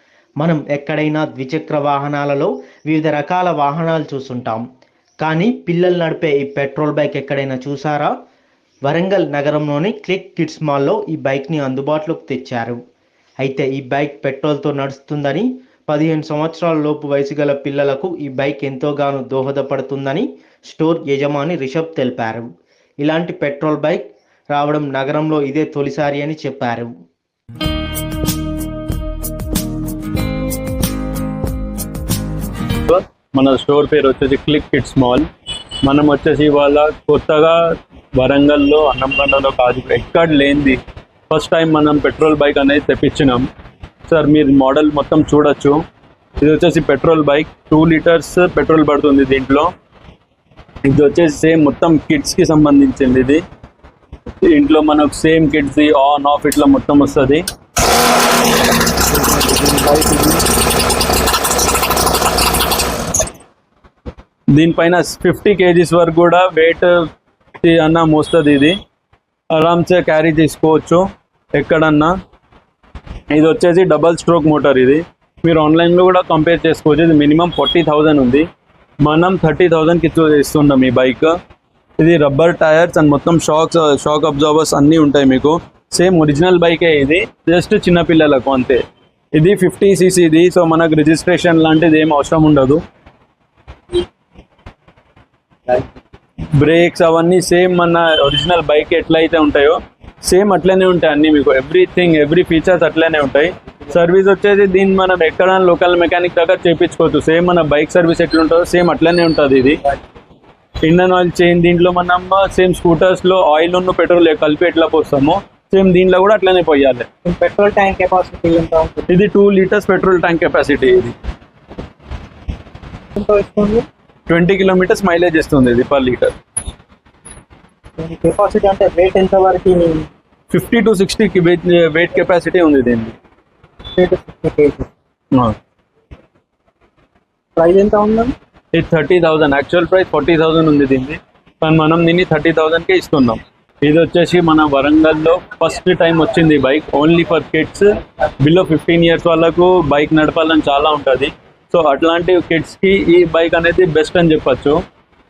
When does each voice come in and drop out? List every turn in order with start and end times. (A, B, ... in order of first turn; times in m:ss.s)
0:00.4-0:04.6 A
0:05.2-0:08.1 A
0:08.9-0:12.8 A
0:13.4-0:22.5 A
0:23.0-0:26.9 A
0:32.9-0:35.3 B
0:35.8-0:43.5 B
0:44.1-0:45.8 B
0:46.4-0:49.7 B
0:50.8-0:53.4 B
0:54.4-0:57.5 B
0:59.1-1:00.4 C
1:04.5-1:07.1 B
1:07.6-1:08.8 B
1:09.5-1:12.2 B
1:13.3-1:18.5 B
1:19.0-1:21.4 B
1:22.0-1:28.8 B
1:29.4-1:32.8 B
1:36.6-1:49.9 B
1:50.8-1:57.1 B
1:57.2-1:59.1 C
1:59.1-2:01.2 B
2:03.2-2:03.9 C
2:04.3-2:06.4 B
2:08.0-2:10.1 C
2:10.5-2:13.2 B
2:14.0-2:14.9 C
2:17.6-2:18.4 C
2:18.7-2:27.9 B
2:28.4-2:34.8 B